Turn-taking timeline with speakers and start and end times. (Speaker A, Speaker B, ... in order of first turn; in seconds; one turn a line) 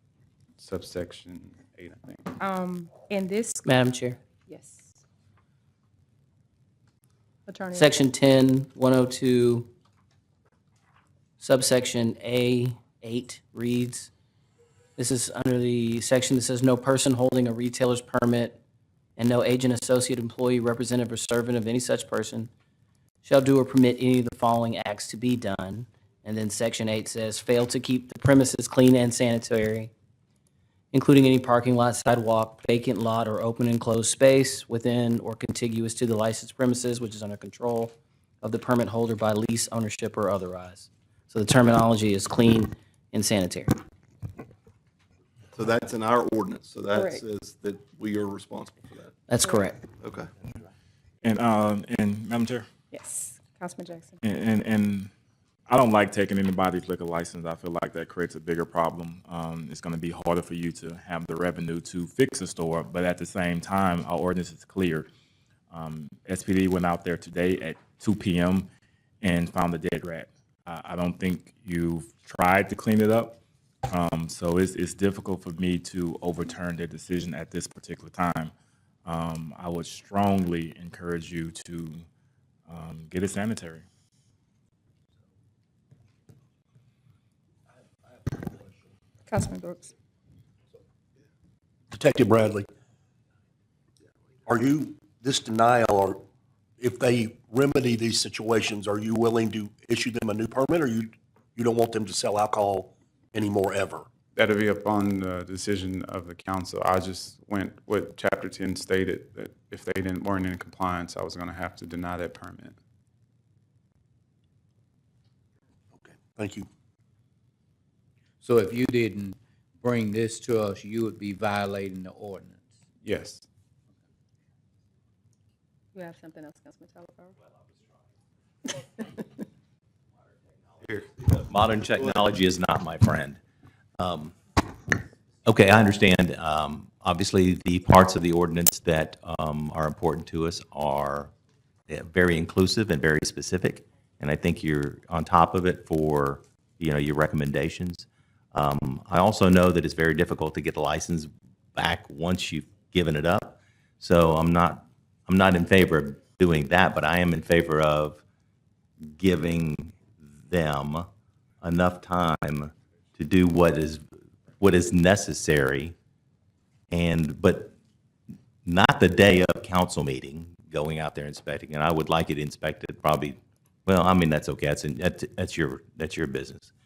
Speaker A: 0.6-2.3
Speaker B: 2.4-3.9
Speaker C: 3.7-4.2
Speaker B: 4.4-5.0
Speaker B: 7.5-8.0
Speaker C: 7.7-9.7
Speaker C: 11.4-14.1
Speaker C: 15.0-18.6
Speaker C: 19.2-22.5
Speaker C: 23.2-29.9
Speaker C: 30.9-43.8
Speaker D: 45.5-49.3
Speaker B: 46.9-47.2
Speaker C: 49.3-49.8
Speaker B: 49.4-49.7
Speaker D: 50.0-50.3
Speaker E: 51.2-52.7
Speaker B: 52.9-54.2
Speaker E: 54.2-55.1
Speaker E: 55.7-65.1
Speaker E: 65.7-68.7
Speaker E: 69.2-78.5
Speaker E: 79.1-82.0
Speaker E: 82.7-83.8
Speaker B: 89.3-89.9
Speaker F: 91.9-92.7
Speaker F: 94.5-96.2
Speaker F: 96.8-104.1
Speaker A: 104.3-112.8
Speaker F: 116.0-116.7
Speaker G: 118.4-122.7
Speaker A: 123.0-123.4
Speaker B: 125.9-127.4
Speaker B: 128.7-129.1
Speaker H: 131.3-133.4
Speaker H: 134.0-134.9
Speaker H: 135.4-141.3
Speaker H: 141.9-158.2
Speaker H: 159.1-161.1
Speaker H: 161.6-164.0
Speaker H: 164.6-165.9
Speaker H: 166.9-167.7
Speaker H: 168.7-176.7